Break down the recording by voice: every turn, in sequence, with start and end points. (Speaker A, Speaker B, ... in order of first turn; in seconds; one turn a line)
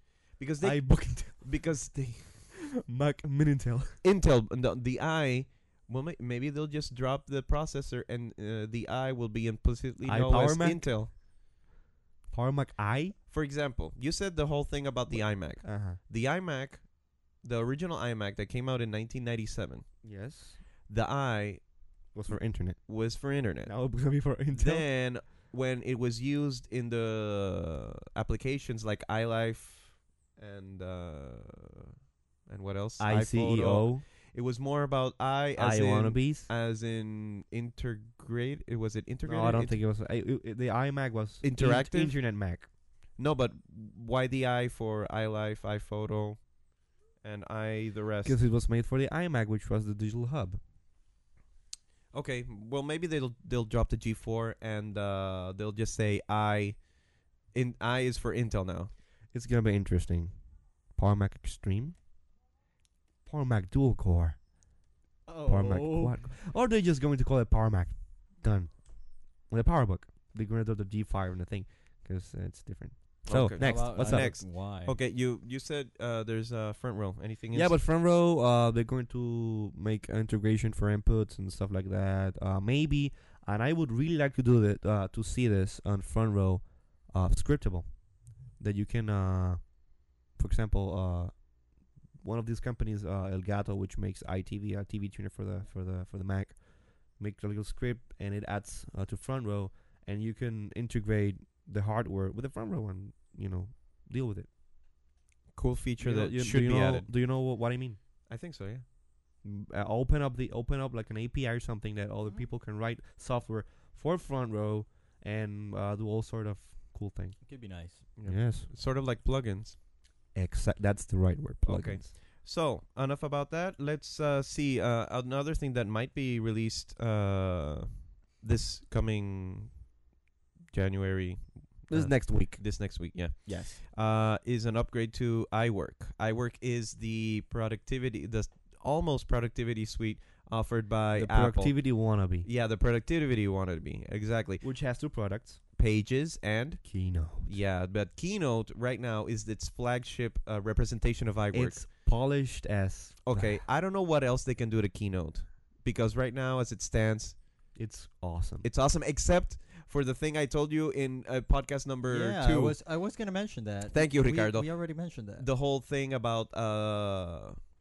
Speaker A: 0.4-2.5
Speaker B: 0.6-1.8
Speaker B: 2.7-4.0
Speaker A: 4.0-11.1
Speaker B: 10.0-11.0
Speaker B: 12.3-13.2
Speaker A: 13.3-19.9
Speaker B: 15.1-16.0
Speaker B: 20.0-20.6
Speaker A: 20.9-21.7
Speaker B: 22.1-24.9
Speaker A: 22.9-31.9
Speaker A: 32.5-39.8
Speaker B: 33.0-34.0
Speaker B: 35.5-36.5
Speaker B: 39.2-42.7
Speaker A: 41.4-42.2
Speaker A: 43.1-46.5
Speaker A: 47.2-48.4
Speaker B: 48.2-50.6
Speaker A: 52.1-56.9
Speaker A: 57.5-58.9
Speaker B: 59.3-60.4
Speaker B: 60.9-62.0
Speaker B: 63.2-64.5
Speaker C: 65.2-66.2
Speaker B: 65.5-74.3
Speaker A: 73.2-77.8
Speaker C: 73.5-75.0
Speaker B: 77.5-91.6
Speaker B: 92.2-104.5
Speaker A: 105.5-107.1
Speaker B: 106.0-108.0
Speaker A: 108.2-108.8
Speaker B: 109.4-117.4
Speaker C: 117.4-118.0
Speaker A: 118.2-119.8
Speaker B: 118.2-118.7
Speaker B: 120.3-122.1
Speaker A: 121.6-129.8
Speaker A: 130.7-144.7
Speaker B: 131.9-133.8
Speaker B: 141.1-142.5
Speaker B: 144.6-145.6
Speaker A: 145.8-151.8
Speaker B: 146.8-147.6
Speaker B: 151.5-153.6
Speaker A: 153.2-157.4
Speaker B: 157.7-158.7
Speaker A: 158.6-162.8
Speaker C: 162.1-165.5
Speaker A: 163.9-167.7